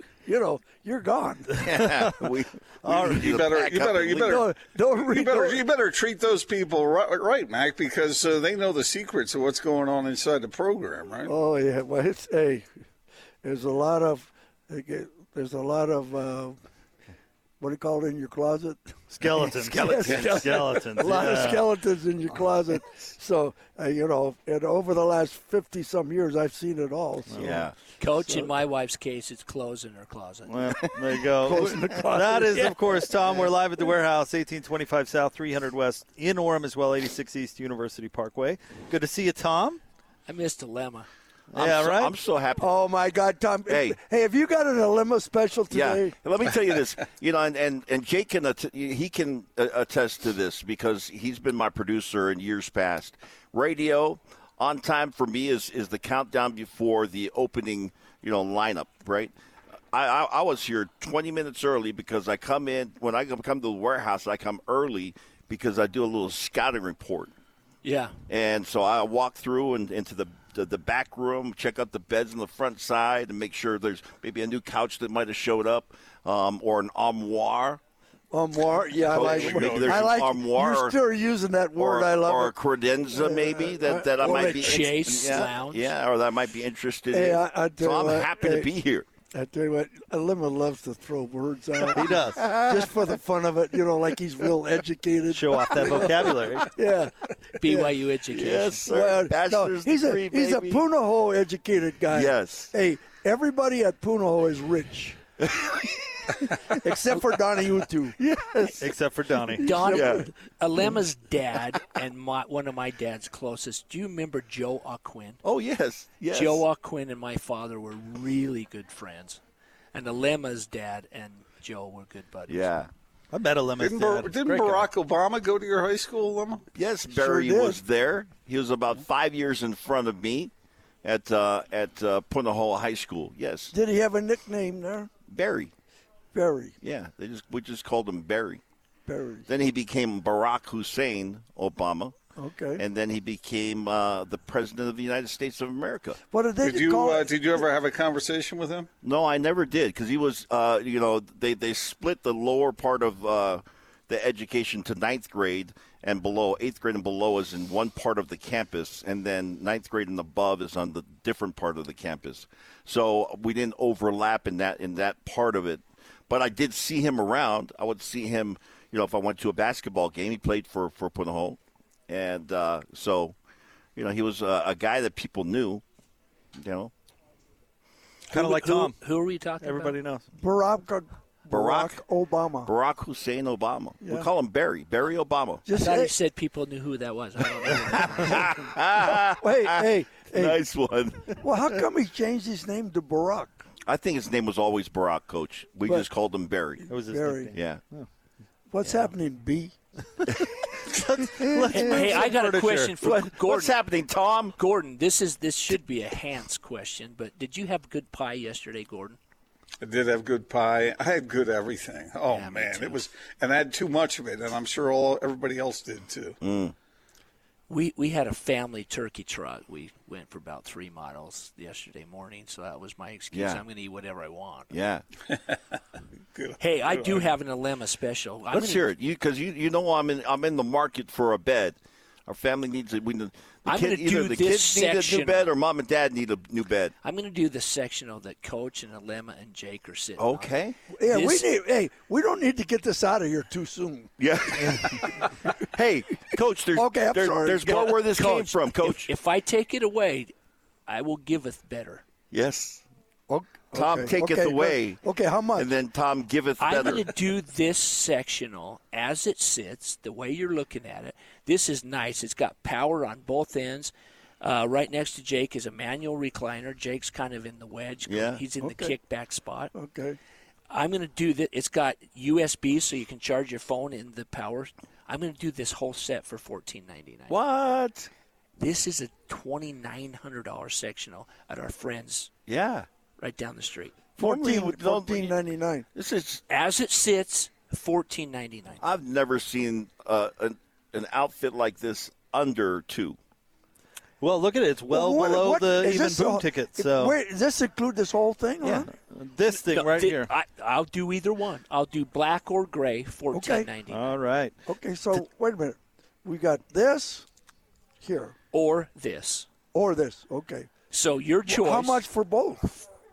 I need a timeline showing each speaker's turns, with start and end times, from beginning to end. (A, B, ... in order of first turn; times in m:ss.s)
0:00.2-0:01.6 A
0:01.6-0:04.4 B
0:03.0-0:11.3 C
0:04.2-0:05.6 A
0:11.3-0:12.7 A
0:13.4-0:16.6 A
0:17.6-0:27.6 A
0:27.4-0:27.8 B
0:28.0-0:30.6 D
0:28.2-0:28.5 A
0:30.8-0:31.4 E
0:31.4-0:33.0 A
0:32.7-0:33.9 E
0:40.3-0:41.1 D
0:41.5-0:42.8 B
0:41.6-0:41.9 E
0:42.6-0:46.1 A
0:43.7-0:44.0 B
0:45.7-0:59.3 B
0:59.9-1:07.3 B
1:07.8-1:08.2 D
1:08.3-1:17.8 B
1:18.3-1:22.6 A
1:19.0-1:20.1 C
1:19.1-1:21.0 B
1:21.8-1:29.1 B
1:23.1-1:25.0 A
1:24.3-1:25.9 D
1:27.1-1:28.7 A
1:29.3-1:38.0 A
1:32.4-1:33.0 B
1:35.4-1:36.6 E
1:37.6-1:38.9 D
1:38.3-1:40.8 B
1:38.8-1:45.2 A
1:42.1-1:42.7 B
1:45.4-1:46.5 B
1:46.4-1:48.8 A
1:48.2-1:48.8 B
1:48.8-1:49.6 E
1:49.4-1:51.0 A
1:49.6-1:55.4 D
1:49.8-1:50.3 B
1:55.4-1:56.6 B
1:56.3-1:59.4 D
1:59.9-2:02.7 D
2:02.5-2:02.9 B
2:03.4-2:04.8 E
2:03.8-2:06.6 C
2:06.8-2:10.5 B
2:07.1-2:07.8 A
2:11.0-2:13.7 B
2:13.7-2:15.1 A
2:15.3-2:15.7 B
2:16.3-2:16.8 A
2:16.8-2:18.6 B
2:19.1-2:19.5 A
2:19.5-2:22.2 B
2:22.4-2:22.8 A
2:22.8-2:26.2 B
2:26.3-2:27.4 A
2:26.6-2:28.9 C
2:29.0-2:53.4 B
2:54.0-2:55.8 B
2:56.6-2:56.9 B
2:58.3-2:58.9 E
2:58.3-3:00.0 D
2:59.6-3:00.2 E
3:00.4-3:02.7 A
3:01.5-3:02.0 B
3:02.6-3:05.6 B
3:05.7-3:06.1 A
3:05.8-3:08.6 D
3:08.1-3:11.4 B
3:09.1-3:10.6 A
3:11.4-3:13.6 A
3:13.9-3:16.9 B
3:16.9-3:17.6 A
3:16.9-3:18.0 E
3:17.5-3:17.8 B
3:18.7-3:19.7 A
3:21.2-3:22.9 E
3:21.7-3:23.8 D
3:23.0-3:24.6 B
3:24.6-3:29.2 D
3:29.8-3:36.4 C
3:32.3-3:33.0 D
3:36.4-3:36.8 B
3:37.7-3:44.7 D
3:43.3-3:43.6 B
3:44.7-3:45.0 B
3:46.4-3:47.3 C
3:46.6-3:48.9 D
3:48.5-3:57.0 B
3:53.7-3:55.5 D
3:57.0-4:00.5 D
4:00.2-4:00.8 B
4:00.9-4:04.1 A
4:01.0-4:01.5 D
4:04.2-4:05.1 B
4:05.6-4:09.1 B
4:06.8-4:08.0 A
4:08.0-4:10.3 D
4:10.9-4:12.0 D
4:12.3-4:12.8 B
4:13.3-4:15.7 A
4:13.7-4:15.0 B
4:15.6-4:17.1 B
4:16.6-4:29.7 D
4:28.1-4:28.4 B
4:28.6-4:29.0 A
4:29.7-4:30.2 A
4:30.7-4:37.4 D
4:37.3-4:38.1 B
4:38.6-4:42.3 D
4:42.5-4:42.9 B
4:43.2-4:44.1 D
4:44.2-4:45.9 A
4:44.2-4:45.4 B
4:46.0-4:46.4 B
4:46.5-4:48.8 D
4:48.8-4:53.2 B
4:54.2-4:57.1 E
4:54.9-4:58.9 A
4:58.6-4:58.9 B
4:59.1-5:00.3 E
4:59.5-5:04.2 D
5:03.3-5:03.7 A
5:03.9-5:04.5 E
5:04.7-5:07.3 A
5:08.0-5:08.4 A
5:08.5-5:09.5 D
5:09.7-5:10.7 A
5:10.9-5:12.0 D
5:11.5-5:12.9 A